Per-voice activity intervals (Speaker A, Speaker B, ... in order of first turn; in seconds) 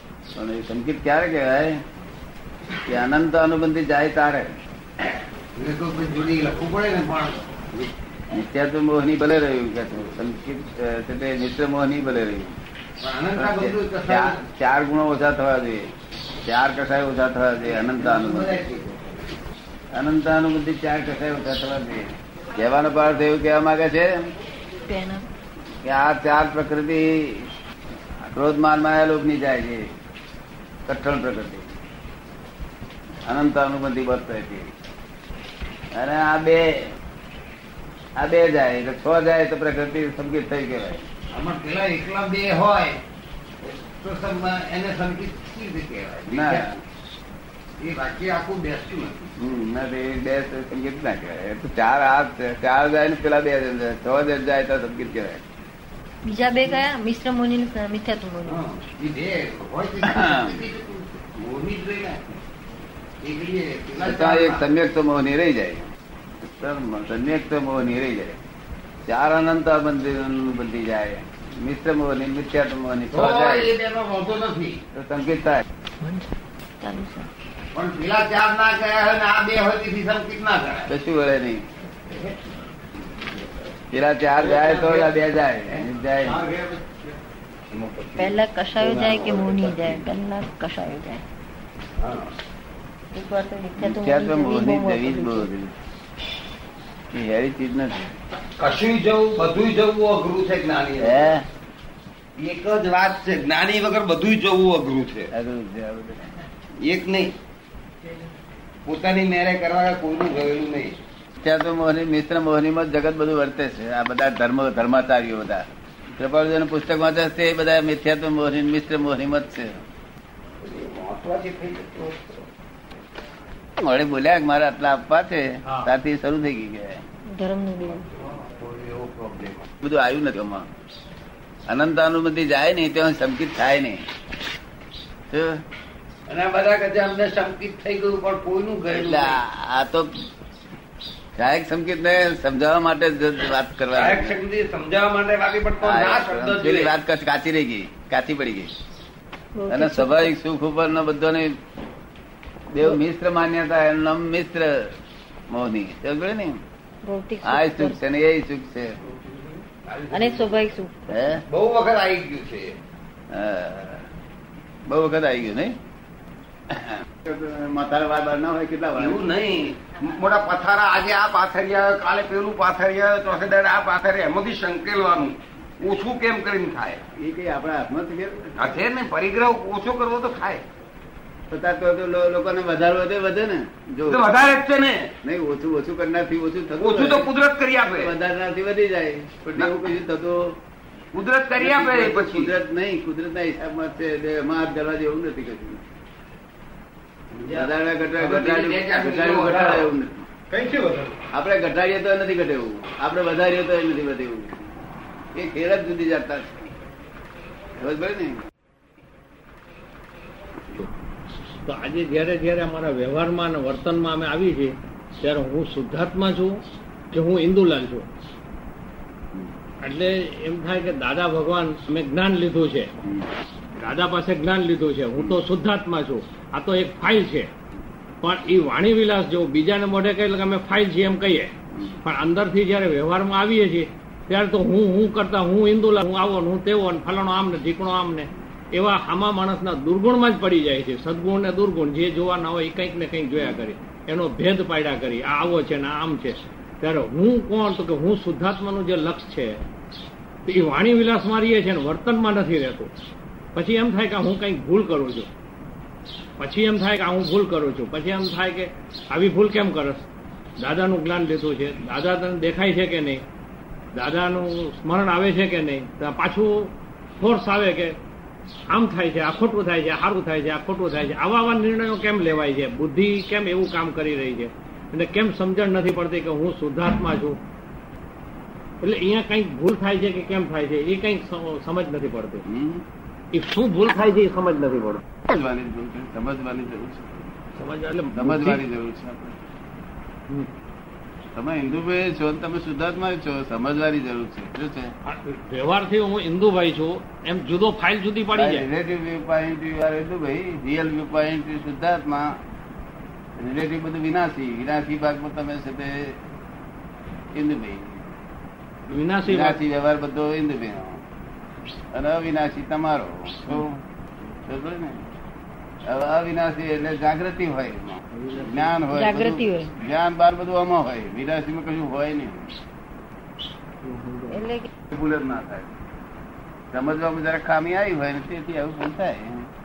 Speaker A: 0.3-1.8, 2.9-4.6, 8.3-12.6, 13.3-15.9, 16.4-18.6, 19.9-24.3, 25.8-27.5, 28.2-29.9, 30.9-31.7, 33.3-34.7, 35.9-36.9, 38.2-41.1, 46.3-46.8, 49.4-55.4, 60.0-60.6, 64.0-65.9, 66.4-68.4, 69.0-73.7, 74.9-75.6, 80.9-81.7, 83.9-86.4, 93.8-95.7, 97.1-98.1, 101.0-101.5, 105.3-106.3, 111.4-119.8, 123.8-127.0, 129.8-130.7, 131.7-134.1, 135.3-135.6, 139.0-140.2, 141.3-144.4, 145.8-148.7, 149.7-151.6, 152.7-154.9, 155.5-156.6, 157.4-159.1, 161.1-161.4, 163.3-164.1, 164.9-165.8, 166.7-169.2, 177.1-178.7, 181.5-184.3, 185.2-187.3, 187.8-190.6, 191.6-195.8, 197.5-200.3, 201.3-204.7, 205.3-206.7, 207.8-208.4, 231.7-232.0, 282.4-282.8, 285.3-287.3, 288.1-289.4, 291.3-294.9, 298.3-302.4, 303.4-306.2, 307.3-308.0, 309.3-311.0, 311.9-313.8, 314.4-315.0, 315.8-322.6, 324.9-325.7, 326.7-329.5
Speaker B: 5.5-7.9, 13.0-14.4, 17.7-19.2, 41.3-43.0, 43.6-46.6, 47.8-49.3, 58.5-62.3, 63.2-64.7, 73.1-74.8, 77.7-80.9, 82.1-82.3, 84.4-85.2, 85.7-87.2, 87.7-90.1, 92.0-92.3, 98.6-101.3, 102.4-105.3, 106.8-107.3, 108.8-111.0, 120.6-122.5, 128.1-129.7, 136.3-139.4, 143.9-146.9, 159.2-160.6, 161.5-162.8, 169.0-177.1, 178.6-180.6, 184.0-185.1, 186.8-188.1, 191.1-192.5, 197.3-199.9, 200.5-201.2
Speaker C: 24.9-25.2, 56.2-58.6, 76.0-77.3, 88.2-91.2, 93.1-95.5, 127.3-128.1, 149.5-150.3, 157.0-158.0, 160.1-161.1, 318.9-319.7, 324.3-324.7
Speaker D: 211.6-216.6, 217.1-218.1, 219.8-222.9, 223.8-227.5, 228.2-249.6, 250.4-252.9, 253.5-255.3, 256.4-260.0, 260.6-263.2, 263.9-268.0, 268.7-277.4, 278.8-282.4, 283.3-285.0, 287.6-288.6, 295.0-298.7, 308.9-309.6, 318.1-318.7, 323.8-324.5